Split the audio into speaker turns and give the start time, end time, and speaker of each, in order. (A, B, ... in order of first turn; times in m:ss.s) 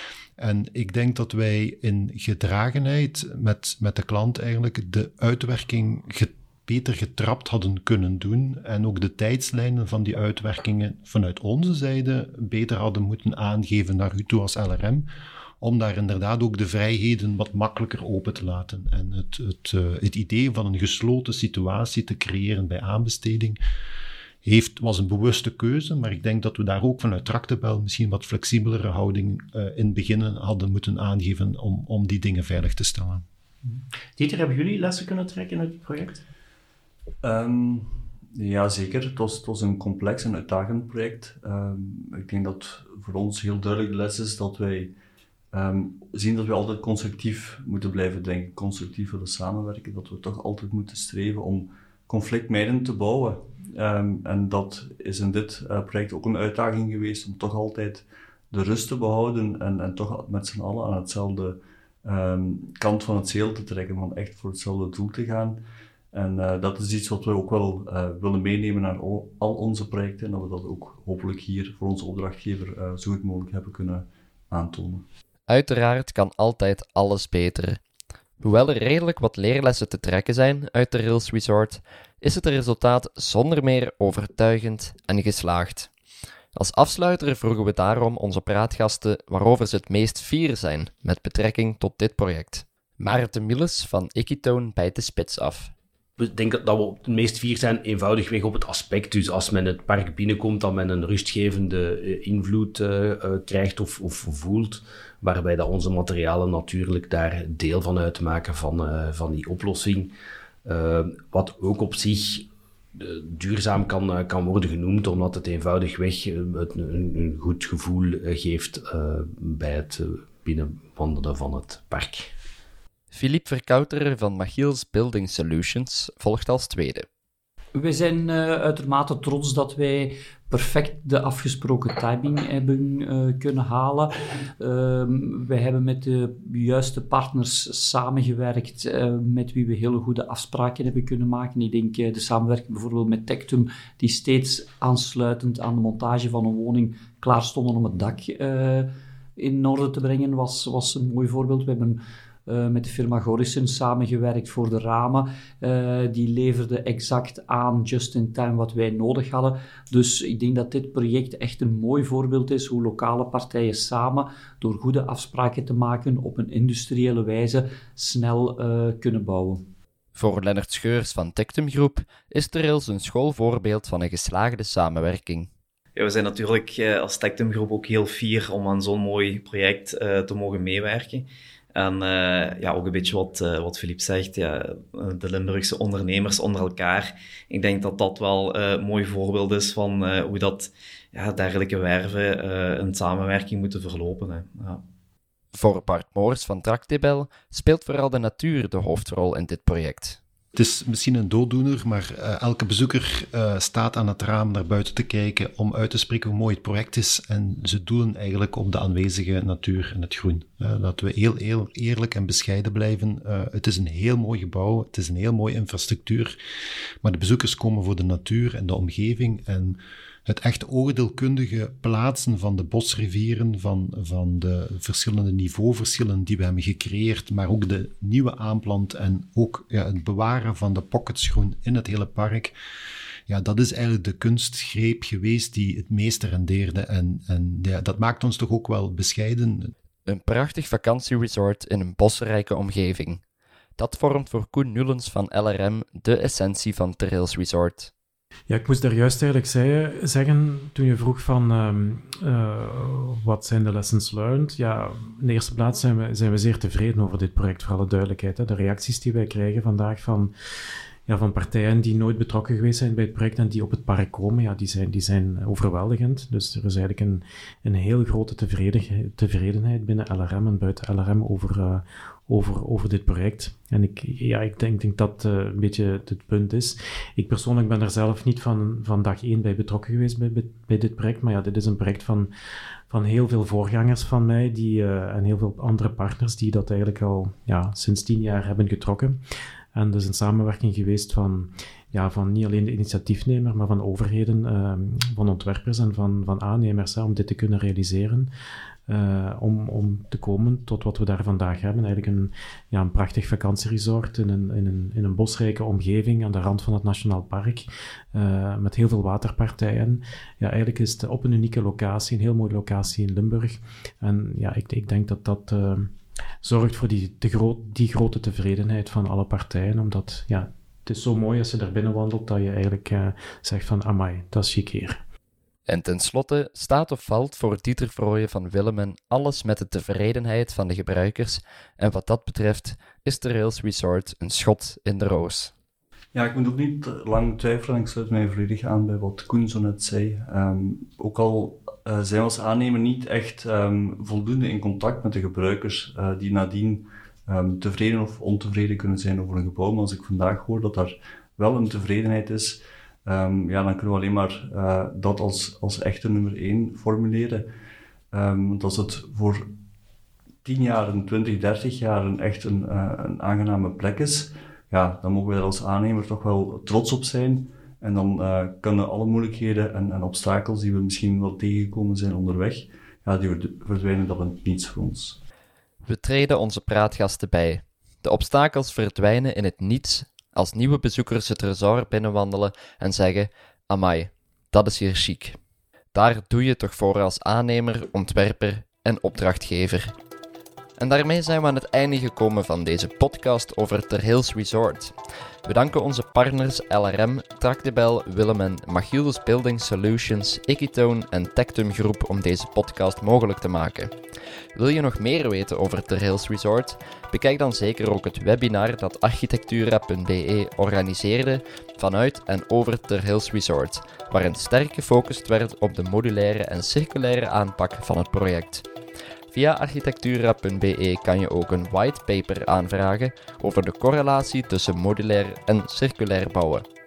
0:00.4-0:15.1 A
0:15.6-0:23.6 A
0:24.4-0:33.2 A
0:33.6-0:36.2 B
0:37.2-0:44.9 C
0:45.5-1:05.6 C
1:06.1-1:15.0 C
1:15.5-1:17.8 D
1:18.4-1:25.9 D
1:26.6-1:35.7 D
1:36.2-1:50.1 E
1:50.6-2:02.3 E
2:03.1-2:07.1 D
2:07.7-2:49.6 F
2:50.1-2:55.5 D
2:56.0-3:14.8 G
3:15.5-3:20.2 D
3:20.5-3:36.4 A
3:37.0-3:52.6 A
3:53.3-3:59.7 A
4:00.0-4:03.2 D
4:03.8-4:07.9 D
4:08.5-4:20.3 H
4:21.0-4:42.3 H
4:42.9-4:49.2 H
4:49.7-4:58.3 H
4:58.9-5:15.9 H
5:16.4-5:25.0 H
5:25.7-5:35.5 D
5:36.1-5:57.4 C
5:58.1-5:59.4 C
6:00.4-6:15.2 C
6:15.8-6:25.4 D
6:25.9-6:29.9 D
6:30.8-6:34.9 D
6:35.4-6:43.9 D
6:44.6-6:58.6 D
6:59.3-7:06.6 D